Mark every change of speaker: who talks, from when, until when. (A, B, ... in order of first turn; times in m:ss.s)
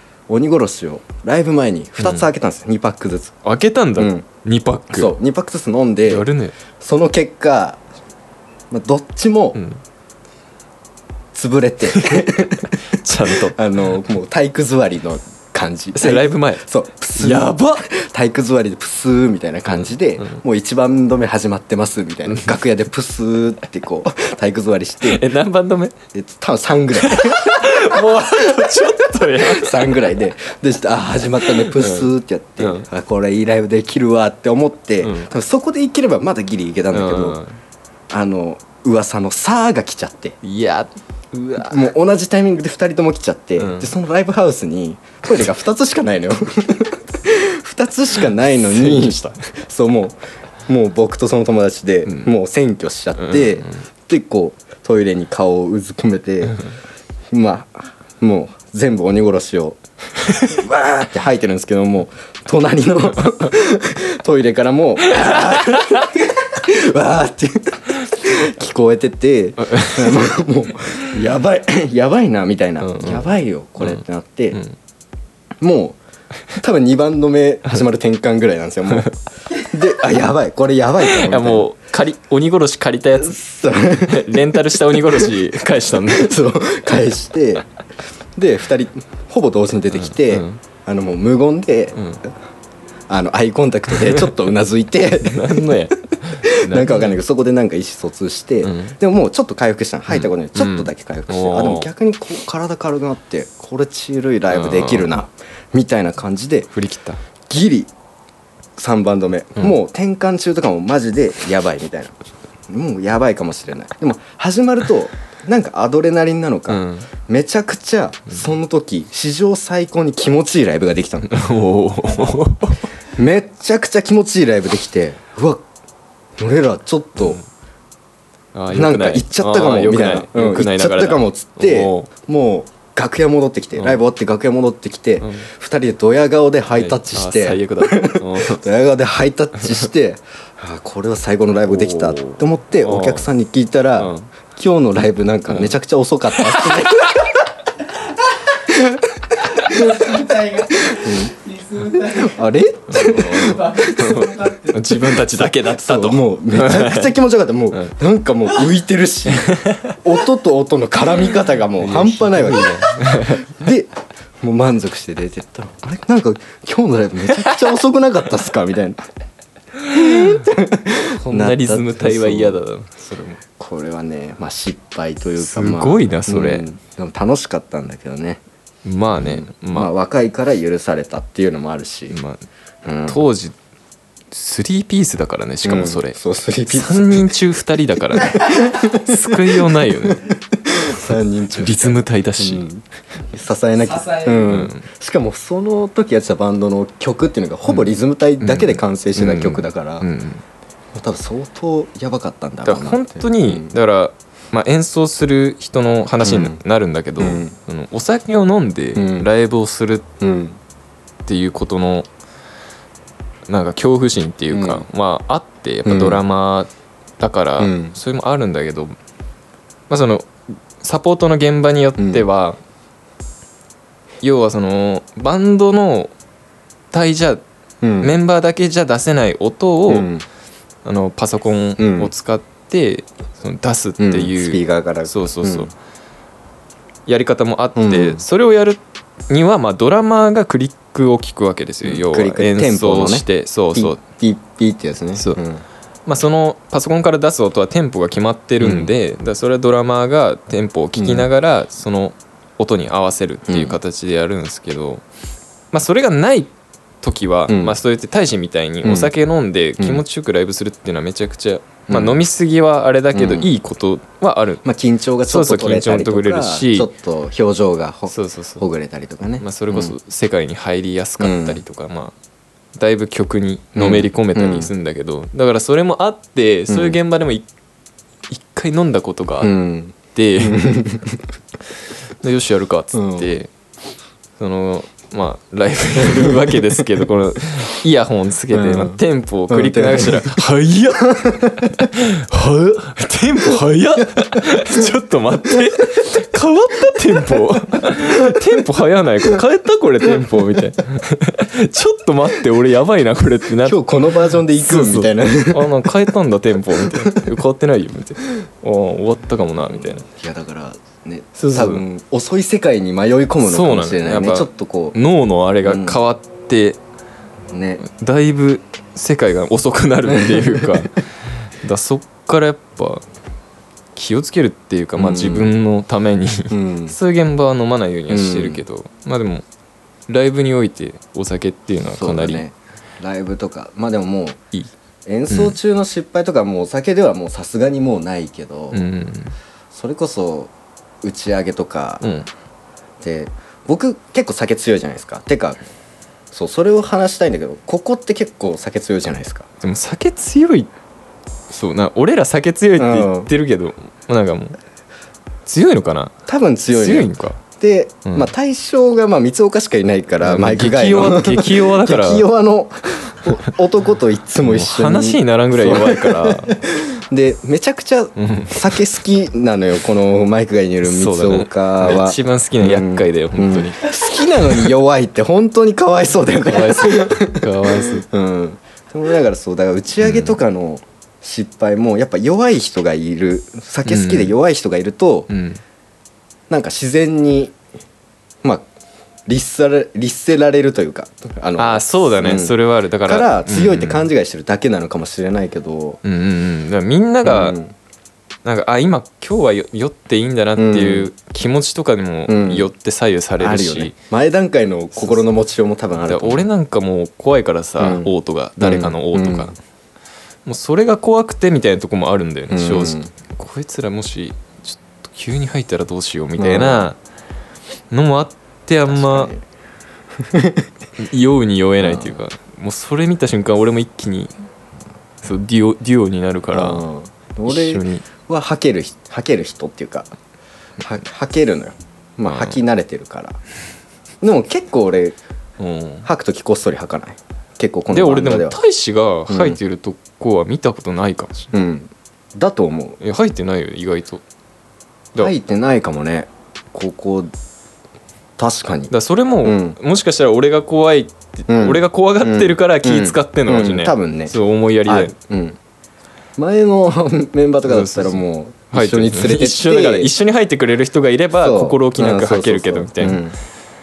0:00.3-0:03.4 A
0:02.0-0:02.3 B
0:03.4-0:05.2 B
0:04.0-0:04.2 A
0:04.9-0:07.8 A
0:06.1-0:06.6 B
0:08.7-0:09.6 A
0:09.6-0:09.8 B
0:11.3-0:25.2 A
0:11.9-0:13.6 B
0:15.9-0:16.6 B
0:17.2-0:17.9 B
0:19.7-0:20.4 B
0:25.0-0:25.9 B
0:26.1-0:37.4 A
0:27.0-0:30.1 B
0:31.4-0:32.9 B
0:35.0-0:35.3 B
0:36.9-0:37.6 B
0:38.1-0:40.4 A
0:40.4-0:41.8 B
0:41.6-0:56.6 A
0:43.6-0:43.9 B
0:48.7-0:49.4 B
0:53.2-0:53.8 B
0:57.3-0:59.8 A
1:00.4-1:14.6 A
1:05.1-1:06.0 B
1:09.6-1:10.2 B
1:12.8-1:14.8 B
1:15.6-1:16.0 A
1:16.6-1:21.7 A
1:18.9-1:19.2 B
1:21.0-1:23.4 B
1:23.2-1:24.4 A
1:24.0-1:26.4 B
1:25.0-1:25.3 A
1:26.0-1:27.7 A
1:28.4-1:32.3 A
1:29.9-1:30.6 B
1:32.0-1:32.2 B
1:33.1-1:35.8 A
1:34.0-1:34.3 B
1:35.2-1:37.2 B
1:36.4-1:46.7 A
1:38.6-1:39.0 B
1:40.1-1:41.9 B
1:44.5-1:45.1 B
1:46.7-1:47.2 B
1:47.5-1:47.9 A
1:48.8-1:52.1 A
1:52.7-2:01.4 A
1:56.7-1:57.1 B
2:01.3-2:02.9 B
2:03.1-2:05.6 A
2:06.4-2:07.4 A
2:08.5-2:12.1 B
2:08.7-2:27.3 A
2:13.8-2:14.0 B
2:15.2-2:15.5 B
2:16.7-2:18.6 B
2:19.6-2:19.9 B
2:21.7-2:23.3 B
2:24.0-2:24.3 B
2:25.5-2:25.7 B
2:26.4-2:27.1 B
2:28.7-2:31.3 A
2:29.6-2:32.4 C
2:31.9-2:34.3 A
2:32.9-2:37.2 B
2:33.4-2:34.9 C
2:35.1-2:49.0 A
2:39.3-2:40.0 B
2:41.8-2:43.5 B
2:49.8-2:50.4 B
2:49.9-2:52.6 A
2:51.1-2:53.4 B
2:53.5-2:58.4 A
2:55.4-2:56.7 B
2:58.8-2:59.9 B
2:59.2-3:02.2 A
3:02.1-3:02.4 B
3:02.8-3:03.3 A
3:03.1-3:03.6 B
3:04.3-3:06.2 B
3:05.6-3:07.4 A
3:06.7-3:10.3 B
3:08.2-3:20.1 A
3:10.9-3:12.7 B
3:13.8-3:14.5 C
3:14.5-3:14.9 B
3:17.7-3:20.4 B
3:20.9-3:23.8 A
3:22.6-3:30.1 B
3:26.2-3:26.6 A
3:27.2-3:27.5 A
3:29.0-3:29.3 A
3:30.2-3:30.6 A
3:31.3-3:32.1 B
3:33.5-3:39.0 B
3:34.5-3:34.9 A
3:35.8-3:36.2 A
3:37.6-3:38.0 A
3:39.9-3:42.6 B
3:42.0-3:42.3 A
3:44.2-3:46.1 B
3:46.9-3:47.4 B
3:47.8-3:48.2 A
3:48.0-3:50.1 B
3:49.9-3:50.2 A
3:50.8-3:55.7 B
3:51.8-3:52.1 A
3:54.0-3:55.7 A
3:57.1-4:04.0 B
3:57.8-3:58.2 A
4:01.8-4:05.6 A
4:06.1-4:15.0 B
4:08.6-4:08.9 A
4:11.0-4:11.3 A
4:13.5-4:13.8 A
4:15.7-4:24.6 B
4:17.5-4:17.8 A
4:18.8-4:19.1 A
4:19.8-4:20.0 A
4:21.9-4:22.2 A
4:23.1-4:23.5 A
4:24.6-4:30.0 A
4:25.3-4:26.9 B
4:28.1-4:28.6 B
4:29.4-4:32.2 B
4:31.2-4:31.6 A
4:32.8-4:37.5 B
4:33.8-4:34.7 A
4:36.7-4:37.0 A
4:38.3-4:39.5 B
4:39.4-4:41.2 A
4:40.1-4:40.7 B
4:42.2-4:43.5 B
4:42.9-4:43.3 A
4:44.4-5:03.8 B
4:46.0-4:46.6 A
4:48.5-4:50.4 A
4:51.1-4:51.9 A
4:54.2-4:54.8 A
5:03.6-5:05.9 A
5:04.6-5:10.1 B
5:06.7-5:07.3 A
5:09.7-5:15.0 A
5:11.4-5:11.8 B
5:13.4-5:16.8 B
5:15.6-5:16.0 A
5:17.5-5:17.8 A
5:17.8-5:21.0 B
5:20.1-5:20.8 A
5:21.6-5:23.0 B
5:24.0-5:29.4 B
5:25.0-5:25.5 A
5:26.5-5:27.0 A
5:28.1-5:28.6 A
5:30.1-5:32.4 B
5:31.9-5:34.4 A
5:35.1-5:38.8 A
5:35.3-5:35.6 B
5:38.7-5:39.4 B
5:39.7-5:42.0 A
5:42.0-5:42.3 B
5:43.0-5:45.6 A
5:46.3-5:49.5 A
5:49.6-5:50.7 B
5:51.5-5:54.6 B
5:52.8-5:53.3 A
5:55.5-5:56.2 B
5:56.3-6:25.3 A
5:56.7-5:57.4 B
5:58.0-5:58.3 B
6:00.2-6:02.3 B
6:04.4-6:06.6 B
6:08.2-6:08.6 B
6:10.8-6:13.9 B
6:14.4-6:14.7 B
6:16.4-6:18.1 B
6:20.0-6:20.4 B
6:23.8-6:24.4 B
6:25.3-6:25.6 B
6:26.5-6:27.6 A
6:29.3-6:36.0 A
6:31.6-6:34.1 B
6:36.0-6:37.6 B
6:37.2-6:37.7 A
6:38.4-6:43.9 B
6:40.6-6:41.1 A
6:42.3-6:42.7 A
6:43.4-6:46.5 A
6:45.0-6:45.2 B
6:46.0-6:49.6 B
6:47.8-6:49.6 A
6:50.5-6:57.0 B
6:52.5-6:53.1 A
6:56.4-6:56.9 A
6:57.9-6:59.3 B
6:58.9-6:59.4 A
7:00.2-7:00.7 A
7:01.0-7:04.3 B
7:01.8-7:02.2 A
7:05.2-7:06.8 B
7:06.5-7:10.1 A
7:07.5-7:08.1 B
7:10.8-7:13.4 A
7:12.3-7:12.6 B
7:14.2-7:15.2 A
7:15.6-7:16.1 B
7:16.0-7:18.6 A
7:17.9-7:21.5 B
7:19.3-7:19.6 A
7:21.5-7:23.0 A
7:23.0-7:24.2 B
7:25.2-7:27.3 A
7:28.4-7:28.9 A
7:28.9-7:35.1 B
7:29.4-7:29.8 A
7:31.5-7:34.4 A
7:34.9-7:35.6 A
7:36.4-7:40.1 A
7:37.6-7:43.2 B
7:41.4-7:43.4 A